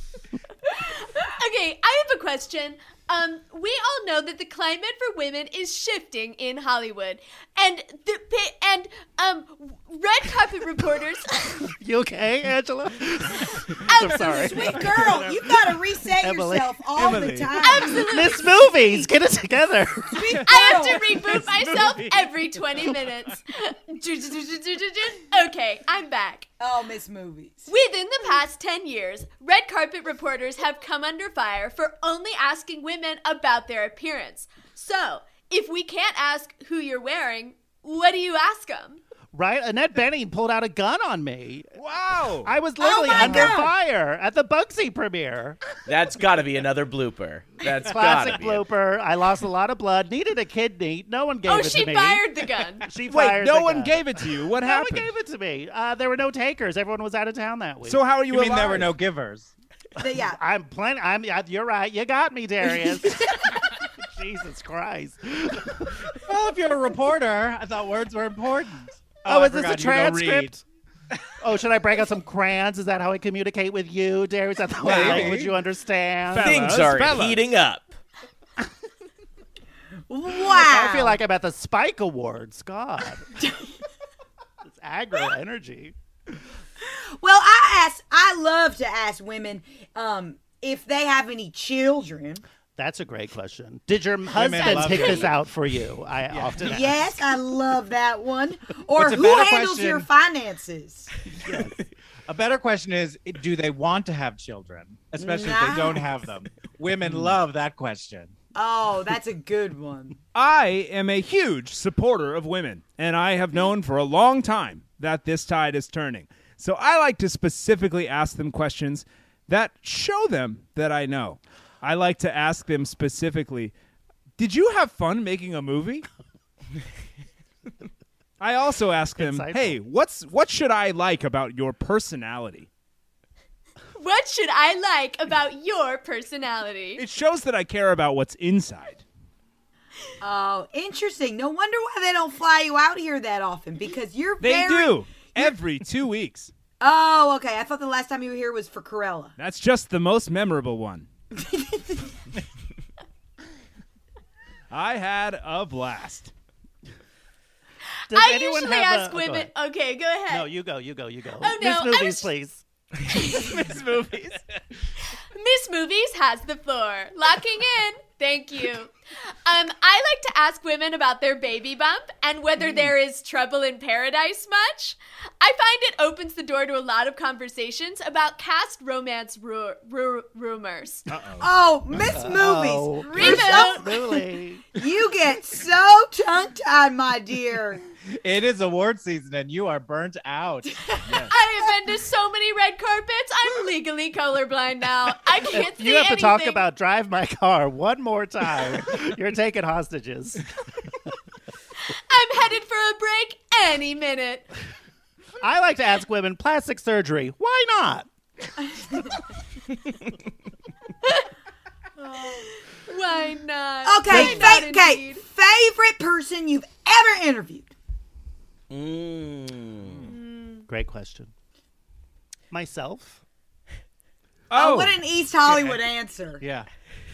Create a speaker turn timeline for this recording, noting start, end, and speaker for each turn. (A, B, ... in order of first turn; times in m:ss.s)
0:00.7-0:11.7 A
0:11.8-0:15.0 B
0:13.9-0:14.8 A
0:14.0-0:18.0 C
0:16.2-0:16.8 B
0:16.9-0:17.6 D
0:17.5-0:19.0 A
0:17.8-0:20.4 B
0:20.1-0:21.1 C
0:20.4-0:23.0 D
0:20.4-0:26.5 A
0:26.6-0:27.7 C
0:27.7-0:39.0 A
0:39.3-0:41.7 B
0:41.8-0:42.5 D
0:42.4-0:45.6 B
0:42.8-0:43.7 C
0:45.8-0:48.6 E
0:47.8-0:52.2 B
0:51.4-0:52.8 A
0:52.8-0:58.0 B
0:53.1-0:55.1 D
0:57.8-0:58.9 D
0:58.3-0:59.5 F
1:00.0-1:00.4 C
1:00.0-1:06.0 B
1:06.2-1:10.5 F
1:09.2-1:10.6 B
1:11.4-1:16.6 B
1:14.8-1:15.6 F
1:14.9-1:15.3 D
1:16.3-1:17.5 D
1:16.4-1:17.9 E
1:20.1-1:21.2 C
1:20.4-1:23.2 B
1:24.6-1:25.9 B
1:26.8-1:32.4 C
1:32.8-1:37.2 B
1:34.3-1:35.4 F
1:34.4-1:35.3 A
1:36.6-1:41.1 C
1:38.9-1:40.1 F
1:41.4-1:41.7 B
1:42.3-1:48.3 F
1:45.2-1:46.1 C
1:48.5-1:50.2 C
1:50.3-2:03.7 D
2:04.4-2:06.0 D
2:08.4-2:12.7 D
2:09.2-2:09.8 B
2:14.0-2:17.0 A
2:17.0-2:19.0 D
2:20.2-2:25.4 C
2:24.4-2:26.5 D
2:26.8-2:29.3 C
2:29.4-2:31.0 D
2:31.4-2:32.0 C
2:34.7-2:36.3 D
2:38.1-2:39.5 B
2:38.1-2:40.5 A
2:40.3-2:42.6 B
2:41.4-2:42.3 A
2:43.1-2:43.5 A
2:43.2-2:44.4 D
2:45.3-2:48.9 A
2:49.4-3:01.1 A
3:01.1-3:01.5 D
3:01.4-3:04.0 C
3:02.0-3:04.6 B
3:03.0-3:04.0 A
3:04.7-3:07.8 C
3:08.2-3:10.7 F
3:10.7-3:11.3 C
3:11.0-3:11.3 D
3:11.2-3:16.6 A
3:15.5-3:20.9 B
3:21.9-3:24.5 A
3:25.4-3:28.1 B
3:31.0-3:31.3 A
3:32.0-3:32.5 C
3:32.7-3:35.2 A
3:33.8-3:37.7 C
3:34.1-3:34.5 B
3:38.7-3:40.1 E
3:40.7-3:41.3 B
3:42.5-3:43.2 B
3:44.5-3:45.0 D
3:44.5-3:46.4 C
3:45.4-3:45.8 F
3:46.4-3:46.7 F